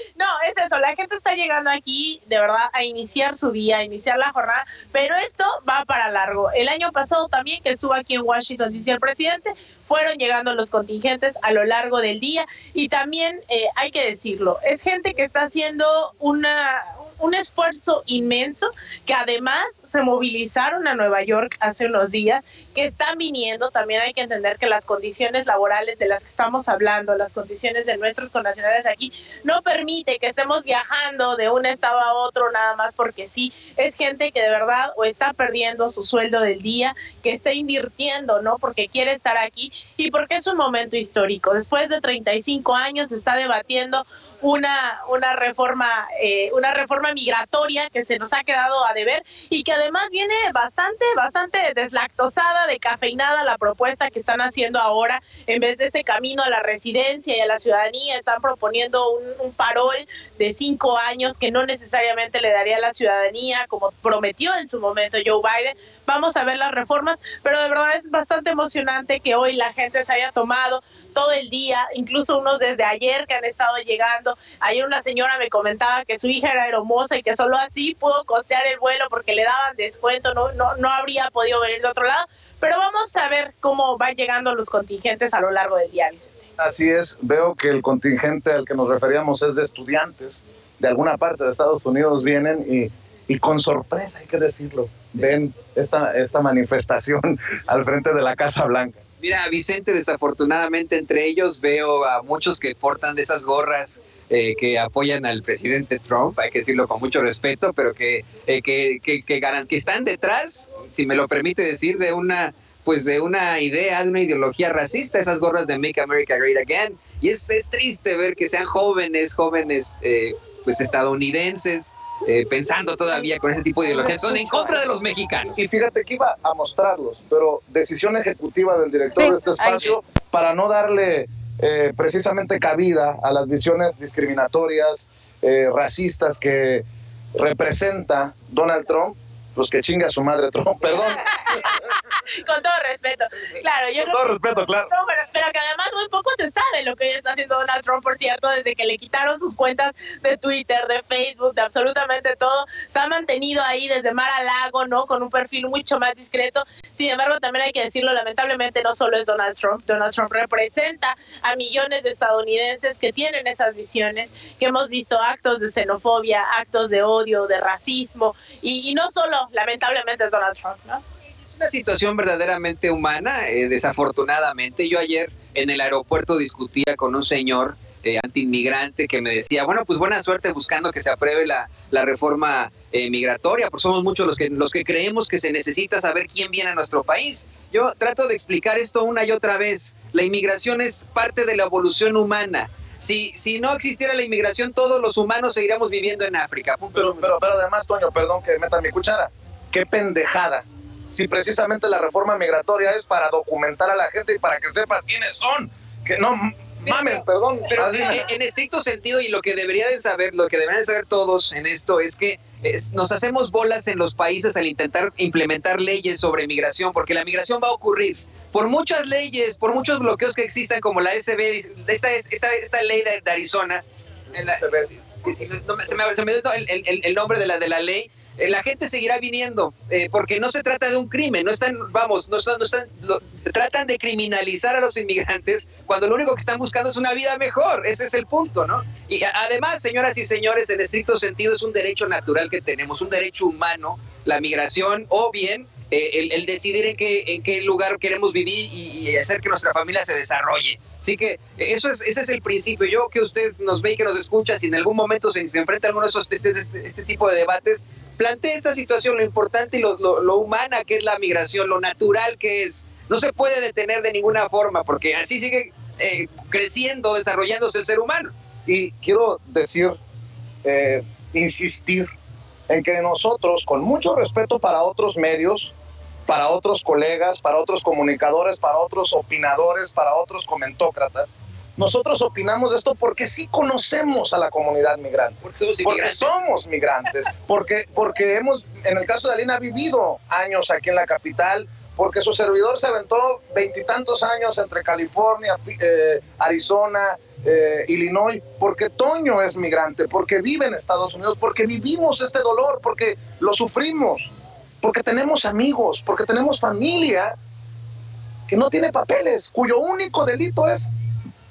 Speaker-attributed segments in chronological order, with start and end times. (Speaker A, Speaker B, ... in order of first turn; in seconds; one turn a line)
Speaker A: 0.1-86.3
Speaker B: 86.6-99.0
Speaker C: 99.2-125.5
Speaker B: 125.5-141.6
Speaker A: 140.9-171.0
Speaker B: 144.0-144.9
Speaker C: 171.4-197.2
Speaker B: 196.9-208.2
Speaker C: 207.7-223.8
Speaker C: 224.3-268.3
Speaker B: 224.4-224.9
Speaker B: 268.6-270.0
Speaker B: 270.6-272.1
Speaker B: 272.7-275.7
Speaker B: 276.3-307.3
Speaker C: 285.4-286.4
Speaker B: 308.5-310.9